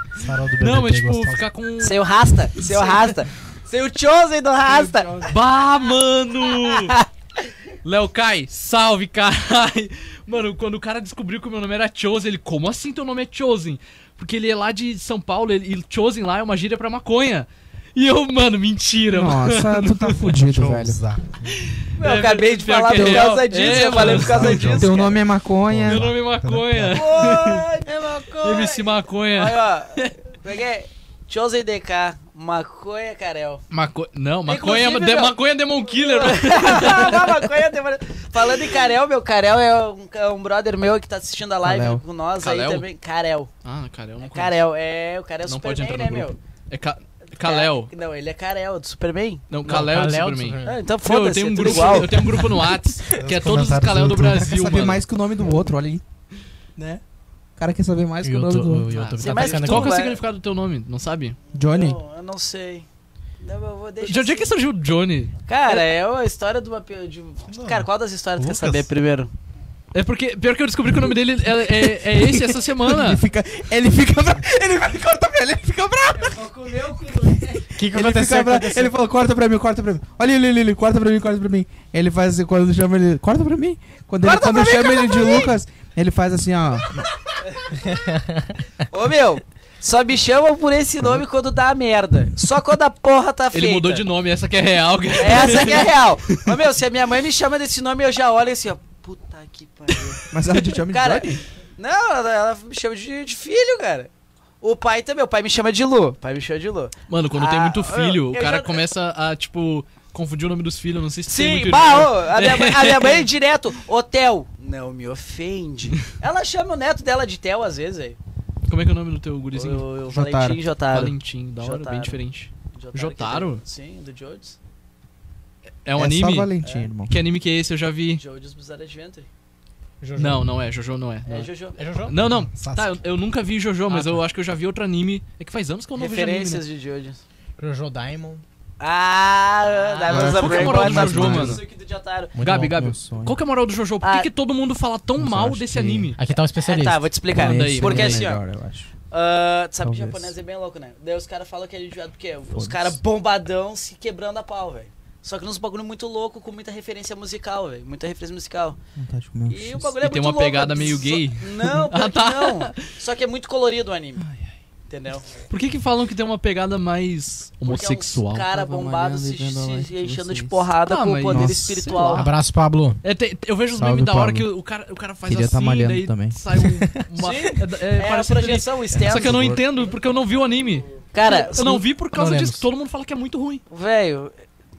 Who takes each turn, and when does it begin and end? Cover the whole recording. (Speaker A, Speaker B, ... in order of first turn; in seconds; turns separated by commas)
Speaker A: 0.2-1.4, Speaker B: 0.6-2.0, Speaker C: 1.8-5.1, Speaker D: 2.6-3.1, Speaker D: 4.7-5.3, Speaker B: 5.3-7.0, Speaker C: 6.6-7.1, Speaker B: 7.8-20.4, Speaker D: 19.1-21.0, Speaker A: 20.3-21.6, Speaker B: 21.8-24.9, Speaker C: 22.0-25.1, Speaker D: 22.9-24.0, Speaker A: 23.9-25.1, Speaker D: 24.6-26.1, Speaker A: 25.7-27.4, Speaker B: 25.9-27.6, Speaker C: 26.9-33.6, Speaker B: 28.4-30.1, Speaker B: 33.7-37.4, Speaker C: 34.5-35.4, Speaker C: 36.0-43.5, Speaker D: 41.6-42.0, Speaker B: 42.4-42.9, Speaker B: 43.6-44.6, Speaker C: 44.2-46.4, Speaker B: 45.4-47.9, Speaker C: 47.4-49.9, Speaker B: 49.5-55.0, Speaker E: 49.7-50.9, Speaker C: 50.6-52.6, Speaker A: 53.1-54.8, Speaker D: 54.6-56.0, Speaker D: 57.6-58.9, Speaker E: 58.2-60.0, Speaker B: 58.9-61.4, Speaker C: 59.2-60.2, Speaker D: 61.5-62.0, Speaker C: 61.6-62.9, Speaker C: 63.4-64.5, Speaker B: 64.0-65.3, Speaker C: 65.5-69.3, Speaker A: 67.5-68.9, Speaker B: 69.9-73.2, Speaker D: 72.8-76.4, Speaker C: 76.2-77.7, Speaker E: 77.8-78.9, Speaker D: 77.8-87.1, Speaker C: 84.2-85.5, Speaker E: 87.8-88.6, Speaker C: 88.9-94.0, Speaker B: 93.5-96.4, Speaker C: 95.2-100.2, Speaker D: 100.3-101.4, Speaker C: 100.9-104.1, Speaker C: 104.6-108.8, Speaker B: 107.1-113.3, Speaker C: 111.3-118.2, Speaker B: 118.7-119.8, Speaker C: 119.5-122.2, Speaker D: 120.1-120.6, Speaker B: 120.9-123.6, Speaker C: 122.7-124.6, Speaker B: 125.8-126.5, Speaker D: 126.0-127.2, Speaker C: 126.6-126.9, Speaker B: 127.1-128.2, Speaker C: 128.2-129.3, Speaker E: 130.0-130.4, Speaker B: 130.2-131.5, Speaker C: 131.3-131.8, Speaker E: 131.8-132.1, Speaker B: 132.1-136.6, Speaker A: 132.5-133.0, Speaker E: 133.9-134.2, Speaker C: 135.9-137.2, Speaker E: 137.6-138.4, Speaker C: 138.8-142.3, Speaker B: 139.9-141.6, Speaker A: 140.1-140.9, Speaker D: 140.3-141.6, Speaker D: 142.3-143.4, Speaker B: 142.4-146.2, Speaker C: 144.0-144.3, Speaker D: 145.2-146.1, Speaker E: 146.2-147.1, Speaker C: 146.6-148.4, Speaker B: 147.3-148.3, Speaker D: 147.3-148.9, Speaker C: 149.1-158.8, Speaker D: 149.8-150.3, Speaker D: 152.5-153.0, Speaker D: 158.9-159.9, Speaker C: 159.5-164.2, Speaker B: 160.0-162.8, Speaker C: 164.9-165.3, Speaker B: 165.5-168.5, Speaker C: 167.6-172.3, Speaker D: 168.5-170.7, Speaker B: 170.8-172.3, Speaker D: 171.3-172.1, Speaker E: 172.1-173.0, Speaker B: 173.0-183.6, Speaker D: 173.8-174.5, Speaker D: 175.3-176.4, Speaker C: 177.2-179.5, Speaker D: 178.9-179.6, Speaker C: 181.1-181.8, Speaker E: 182.1-182.7, Speaker C: 183.7-184.3